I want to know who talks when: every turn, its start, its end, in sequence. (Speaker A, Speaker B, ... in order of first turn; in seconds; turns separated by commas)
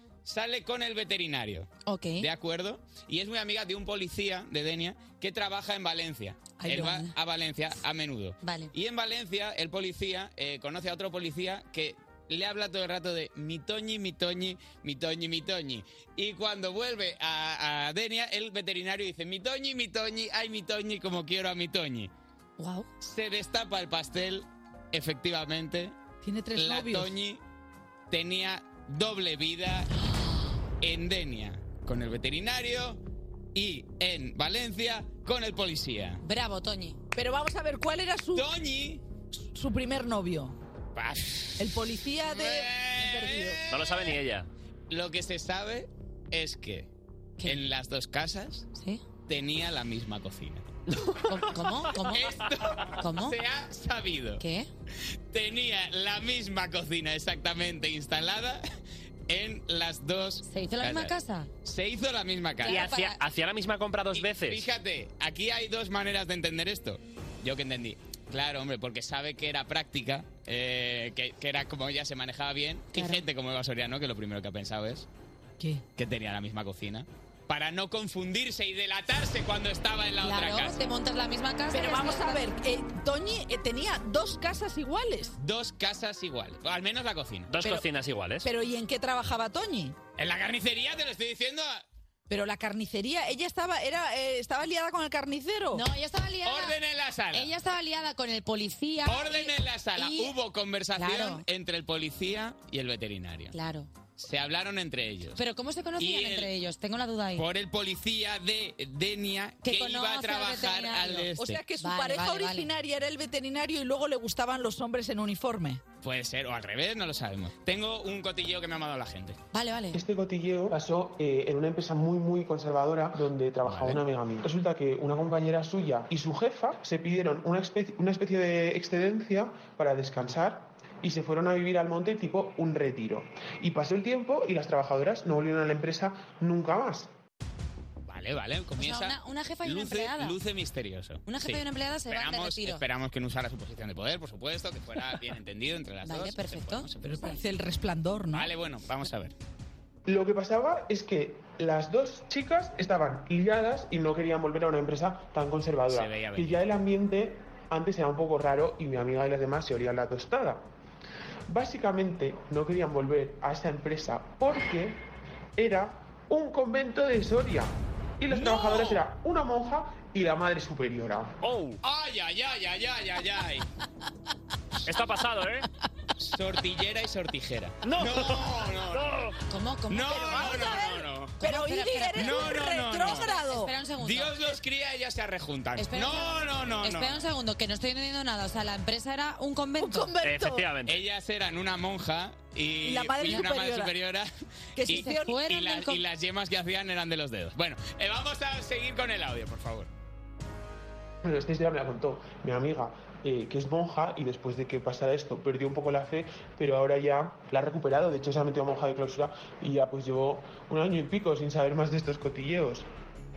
Speaker A: 0.2-1.7, Speaker B: 1.9-2.3, Speaker A: 2.2-22.1, Speaker C: 6.6-7.1, Speaker B: 8.4-8.7, Speaker B: 22.6-22.9, Speaker A: 23.0-26.0, Speaker C: 26.2-27.1, Speaker A: 26.5-27.4, Speaker A: 28.1-29.9, Speaker A: 30.8-33.0, Speaker A: 33.5-36.2, Speaker B: 36.2-37.0, Speaker C: 37.1-38.5, Speaker A: 38.3-39.0, Speaker C: 39.4-40.5, Speaker A: 41.0-41.7, Speaker C: 41.6-43.6, Speaker A: 42.2-44.2, Speaker D: 43.7-44.5, Speaker A: 44.9-46.9, Speaker B: 47.4-47.7, Speaker A: 47.4-48.7, Speaker B: 48.8-49.0, Speaker A: 49.3-50.6, Speaker B: 51.2-52.3, Speaker A: 52.0-54.4, Speaker B: 53.0-53.4, Speaker B: 54.4-54.7, Speaker A: 55.3-58.6, Speaker A: 59.3-61.1, Speaker B: 60.5-61.5, Speaker A: 61.6-62.9, Speaker B: 62.6-63.2, Speaker D: 62.6-64.6, Speaker A: 64.1-75.1, Speaker B: 72.9-73.2, Speaker A: 76.0-80.8, Speaker B: 80.2-82.5, Speaker C: 81.7-85.3, Speaker A: 85.4-87.5, Speaker D: 87.5-88.5, Speaker C: 88.4-90.0, Speaker A: 90.2-91.8, Speaker C: 92.3-95.8, Speaker B: 95.7-96.8, Speaker A: 96.5-97.5, Speaker B: 97.3-100.3, Speaker A: 99.1-103.5, Speaker B: 101.0-101.4, Speaker B: 103.5-103.9, Speaker A: 104.2-105.4, Speaker B: 105.4-107.5, Speaker A: 106.0-106.5, Speaker A: 107.4-111.6, Speaker B: 109.6-112.7, Speaker C: 111.4-115.8, Speaker A: 116.0-119.4, Speaker B: 119.5-120.0, Speaker E: 119.9-137.1, Speaker A: 138.1-147.3, Speaker B: 138.8-140.3, Speaker B: 141.3-142.8, Speaker B: 146.1-146.9, Speaker C: 147.0-148.5, Speaker A: 148.3-149.3, Speaker E: 150.1-160.6, Speaker A: 155.9-156.6, Speaker E: 161.5-165.0, Speaker E: 165.6-171.4, Speaker A: 168.3-169.1, Speaker D: 171.4-171.8, Speaker A: 171.8-173.7, Speaker D: 174.8-175.7, Speaker A: 176.2-179.2, Speaker C: 177.9-178.5, Speaker D: 179.0-179.3, Speaker B: 179.5-180.8, Speaker A: 179.9-181.4, Speaker C: 180.2-183.7, Speaker B: 181.4-184.5, Speaker A: 182.2-183.3, Speaker A: 184.0-187.2, Speaker B: 185.8-190.1, Speaker C: 189.8-190.7, Speaker D: 190.2-191.0, Speaker A: 190.9-194.3, Speaker C: 192.8-193.9, Speaker C: 194.8-195.4, Speaker A: 194.9-199.9, Speaker B: 194.9-196.0, Speaker E: 201.2-212.8